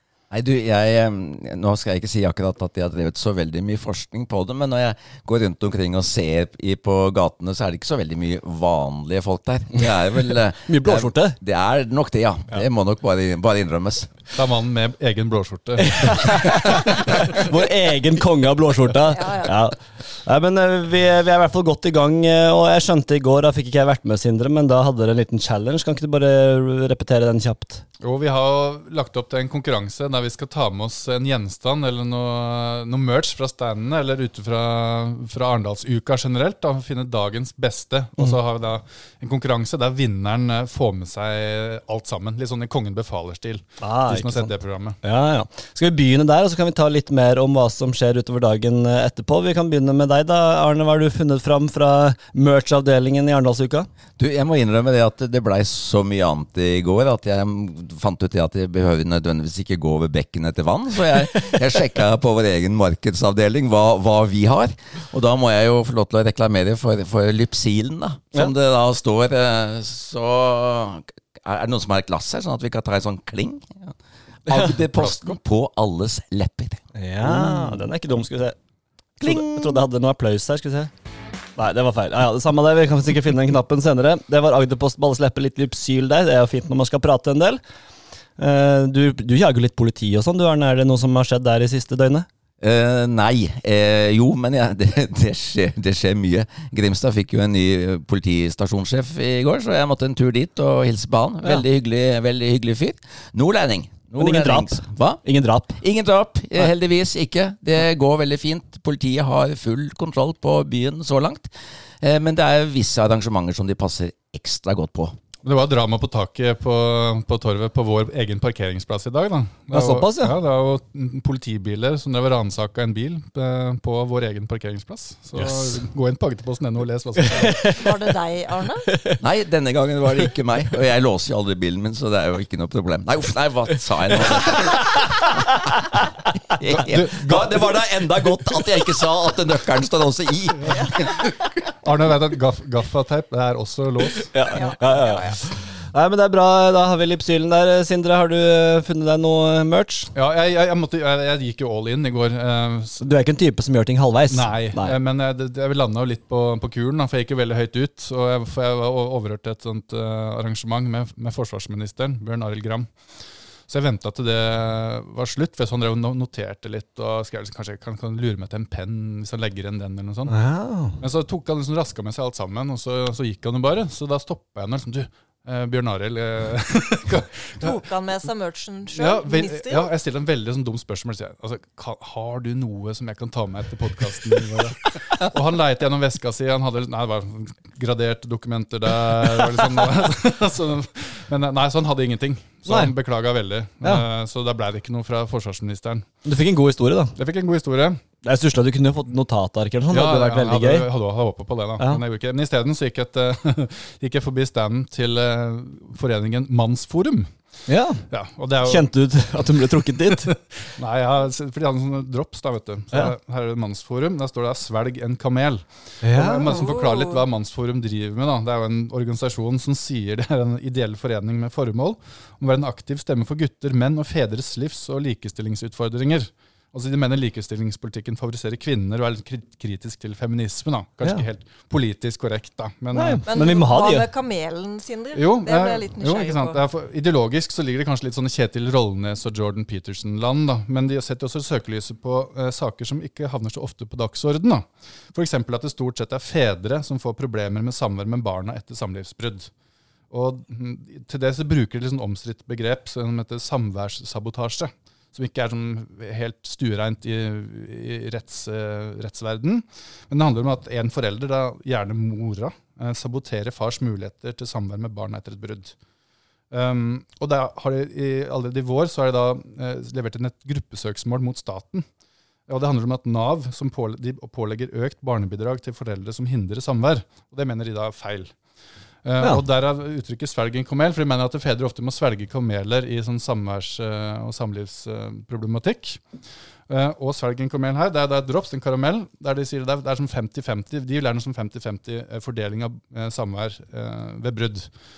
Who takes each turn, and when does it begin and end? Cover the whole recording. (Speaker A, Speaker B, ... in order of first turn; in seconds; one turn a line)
Speaker A: 0.3-14.2
Speaker B: 10.7-11.4
Speaker C: 14.3-17.3
Speaker B: 15.9-27.8
Speaker D: 19.1-19.5
Speaker C: 28.0-45.0
Speaker B: 43.8-44.5
Speaker B: 45.0-53.9
Speaker A: 54.2-73.9
Speaker A: 74.5-77.8
Speaker C: 74.5-75.4
Speaker B: 77.0-78.6
Speaker B: 79.2-80.9
Speaker A: 79.2-79.8
Speaker B: 81.6-87.6
Speaker B: 88.4-92.3
Speaker A: 92.6-105.2
Speaker B: 104.2-105.8
Speaker A: 105.8-111.5
Speaker A: 112.0-115.2
Speaker C: 115.4-127.7
Speaker B: 119.7-120.3
Speaker B: 127.3-127.7
Speaker D: 127.7-128.9
Speaker A: 129.2-135.1
Speaker B: 134.3-135.8
Speaker A: 136.5-141.4
Speaker C: 136.8-137.6
Speaker C: 141.8-144.3
Speaker B: 144.3-150.1
Speaker D: 144.5-145.4
Speaker C: 150.1-153.0
Speaker B: 153.0-155.0
Speaker C: 154.3-162.9
Speaker C: 163.7-170.4
Speaker B: 170.3-171.0
Speaker C: 171.0-177.7
Speaker D: 177.6-179.9
Speaker C: 178.9-196.1
Speaker B: 192.7-192.9
Speaker B: 196.2-197.2
Speaker C: 197.2-198.0
Speaker B: 198.2-200.9
Speaker C: 199.9-207.3
Speaker B: 207.7-208.1
Speaker C: 208.1-233.3
Speaker B: 208.6-210.3
Speaker B: 216.0-216.7
Speaker D: 216.5-217.2
Speaker B: 232.9-234.1
Speaker D: 233.3-236.6
Speaker C: 235.1-249.5
Speaker C: 250.1-265.8
Speaker C: 266.5-271.9
Speaker C: 272.5-278.4
Speaker C: 279.1-286.0
Speaker C: 286.7-294.7